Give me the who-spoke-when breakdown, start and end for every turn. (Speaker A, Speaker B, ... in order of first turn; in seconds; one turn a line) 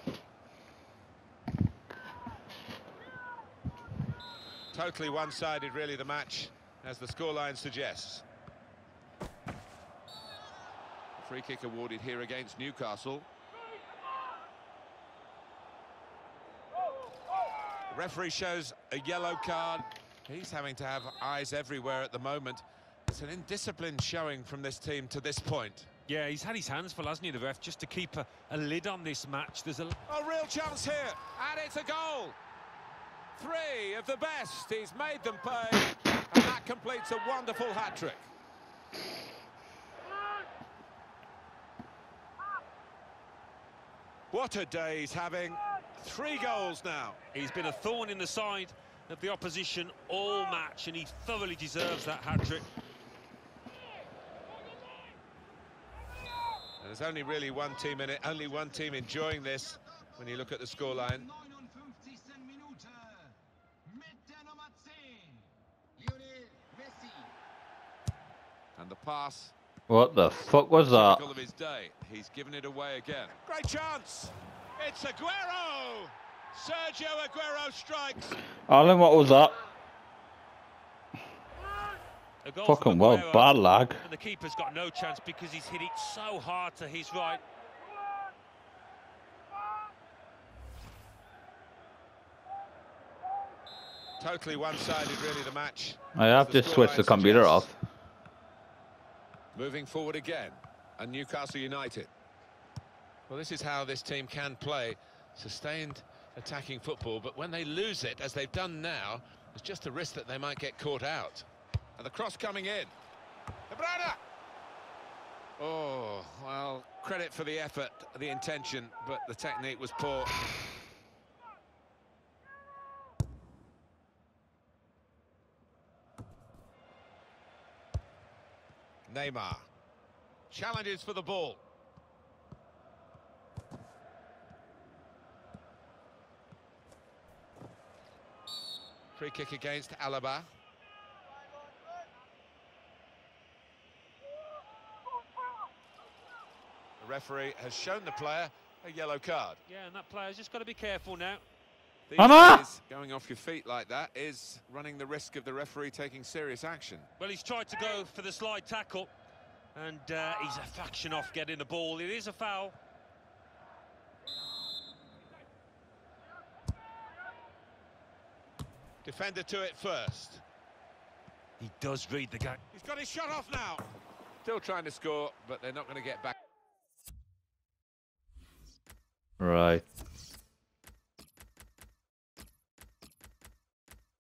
Speaker A: 4.7-8.2
Speaker A: 11.2-13.3
Speaker A: 17.9-25.9
Speaker B: 26.1-30.0
Speaker A: 30.1-32.4
Speaker A: 33.4-38.3
Speaker A: 44.3-47.2
Speaker B: 47.3-52.7
Speaker A: 56.8-61.3
Speaker A: 68.8-69.5
Speaker C: 69.9-71.2
Speaker A: 70.5-78.4
Speaker C: 78.7-79.5
Speaker B: 82.4-87.4
Speaker C: 82.6-84.0
Speaker A: 94.2-97.7
Speaker C: 96.2-97.8
Speaker A: 99.5-102.1
Speaker A: 103.3-112.9
Speaker A: 113.7-114.2
Speaker A: 115.6-120.3
Speaker A: 129.1-129.7
Speaker A: 130.5-131.6
Speaker A: 139.1-140.5
Speaker A: 147.0-149.6
Speaker B: 149.7-151.4
Speaker A: 152.1-157.1
Speaker C: 152.2-152.6
Speaker B: 157.2-159.1
Speaker B: 159.7-162.7
Speaker A: 169.0-170.4
Speaker B: 171.6-172.6
Speaker A: 172.7-173.8
Speaker A: 174.4-176.3
Speaker C: 179.4-179.8